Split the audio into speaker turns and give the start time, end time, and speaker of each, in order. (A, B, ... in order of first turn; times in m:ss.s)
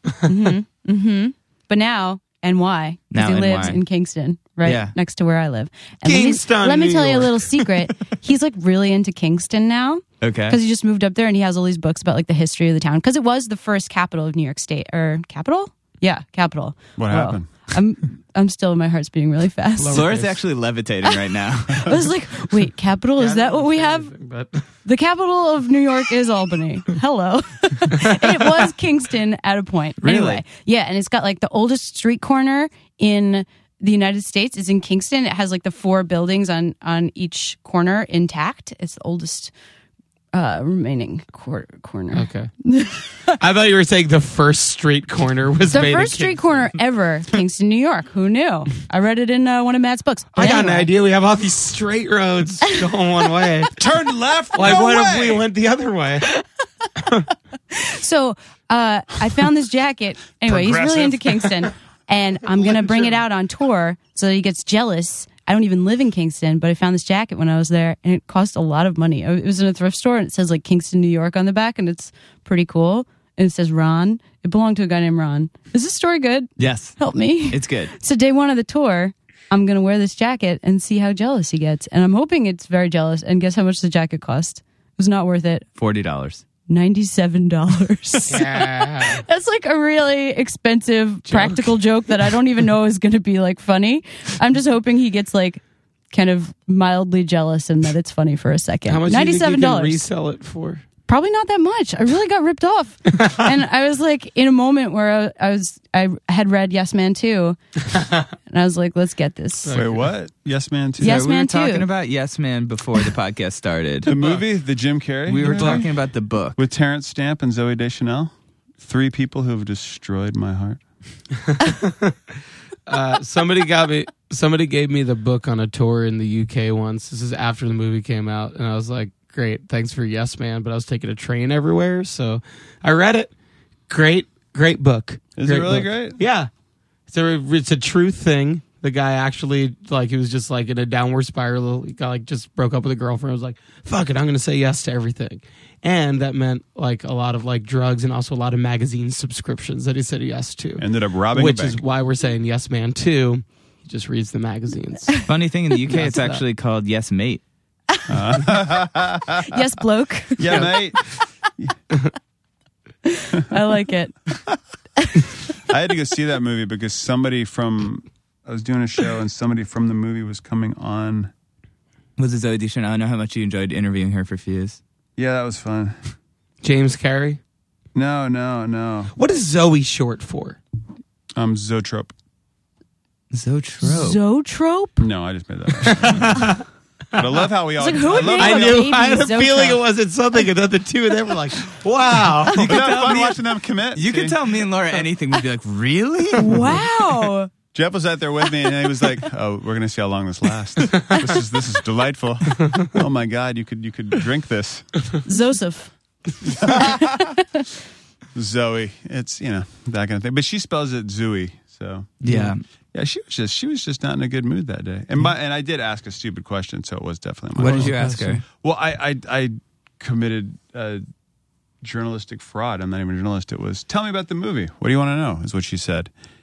0:00.2-0:20.1 A
0:03.1-0:03.8 B
0:04.6-0:04.9 B
0:06.0-0:07.8 C
0:10.2-0:10.6 B
0:17.0-0:17.5 D
0:19.8-0:20.4 C
0:19.9-0:22.0 B
0:21.7-0:24.1 A
0:23.2-0:24.7 C
0:24.8-0:39.5 A
0:30.0-0:30.4 B
0:40.3-0:43.4 A
0:42.1-0:42.5 C
0:43.4-0:46.7 C
0:45.7-0:50.9 A
0:50.3-0:53.7 C
0:53.8-0:55.4 D
0:54.5-0:56.4 C
0:57.0-0:57.3 C
0:57.7-1:25.7 A
1:00.5-1:01.6 C
1:02.6-1:03.2 C
1:16.6-1:17.9 B
1:25.8-1:26.4 B
1:26.7-1:40.0 A
1:28.3-1:29.2 C
1:31.3-1:31.8 C
1:38.8-1:40.8 C
1:41.0-1:47.6 A
1:48.5-1:49.8 A
1:49.6-1:50.1 C
1:49.7-1:51.2 D
1:51.0-1:51.9 A
1:51.0-1:54.1 B
1:54.0-1:55.8 D
1:54.1-1:54.4 C
1:55.3-1:56.6 B
1:55.4-1:55.8 C
1:56.6-2:00.8 D
2:01.4-2:02.2 C
2:02.9-2:13.3 C
2:13.9-2:16.5 C
2:15.4-2:16.2 D
2:17.1-2:35.1 C
2:30.8-2:31.8 D
2:35.2-2:37.4 B
2:35.9-2:36.4 C
2:38.1-2:39.6 D
2:39.4-2:40.8 A
2:40.4-2:41.0 D
2:43.0-2:44.1 A
2:45.0-2:45.3 A
2:45.7-2:51.3 D
2:52.2-2:54.8 B
2:55.2-2:55.9 D
2:56.6-2:57.4 C
2:57.9-2:59.1 D
2:59.1-3:00.6 C
3:01.4-3:02.1 D
3:03.3-3:04.2 B
3:03.8-3:05.0 A
3:05.0-3:06.5 D
3:05.8-3:07.2 C
3:07.1-3:08.9 D
3:07.8-3:09.8 A
3:08.2-3:12.9 C
3:12.5-3:14.4 D
3:12.5-3:13.4 B
3:13.9-3:16.8 B
3:16.4-3:17.5 A
3:17.7-3:24.9 D
3:20.8-3:21.2 C
3:25.2-3:25.9 A
3:26.5-3:27.4 D
3:26.6-3:27.4 A
3:28.3-3:32.1 D
3:32.2-3:32.6 B
3:32.3-3:32.5 C
3:32.9-3:41.0 D
3:37.6-3:38.4 B
3:37.6-3:38.4 C
3:41.8-3:46.1 D